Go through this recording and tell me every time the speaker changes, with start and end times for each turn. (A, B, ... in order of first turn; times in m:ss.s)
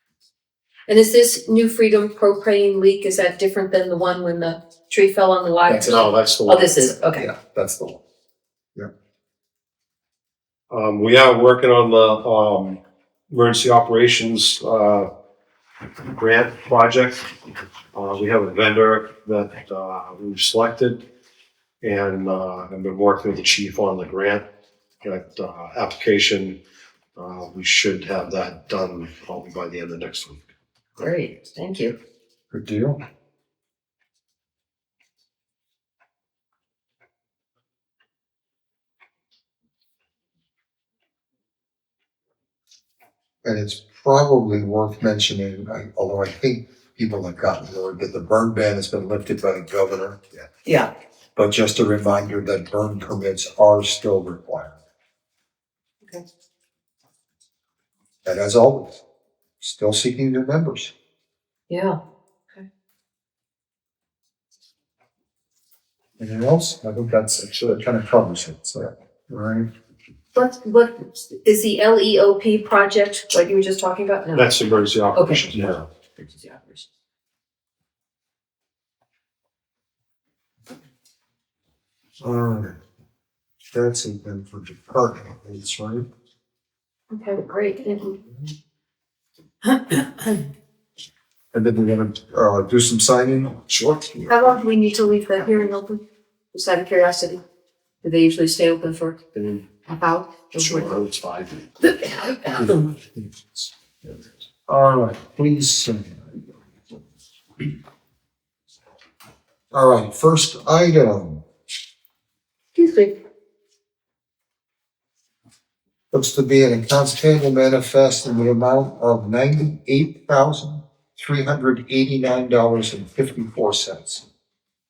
0:00.9-0:07.3 A
0:05.7-0:06.9 B
0:07.2-0:08.0 C
0:10.7-0:15.1 B
0:16.1-0:17.3 B
0:17.9-0:21.0 B
0:21.8-0:24.4 B
0:25.0-0:26.6 B
0:27.2-0:30.4 B
0:31.0-0:32.0 A
0:32.5-0:33.0 C
0:43.4-0:50.5 C
0:50.6-0:50.9 A
0:51.4-0:54.8 C
0:58.2-0:59.0 C
0:59.6-1:00.9 C
1:01.7-1:02.0 A
1:06.2-1:09.7 C
1:07.5-1:07.8 B
1:10.3-1:14.5 A
1:14.4-1:15.9 B
1:15.1-1:15.4 A
1:16.2-1:16.9 A
1:22.2-1:22.8 C
1:23.7-1:26.0 C
1:27.1-1:28.2 A
1:29.6-1:30.4 A
1:31.5-1:34.3 C
1:34.3-1:36.0 A
1:36.5-1:37.4 A
1:38.0-1:39.2 A
1:39.4-1:39.6 B
1:39.8-1:40.9 A
1:40.6-1:41.6 B
1:41.8-1:42.9 A
1:43.2-1:43.6 C
1:44.7-1:46.4 C
1:49.7-1:51.4 C
1:52.8-1:53.2 A
1:56.1-2:04.2 C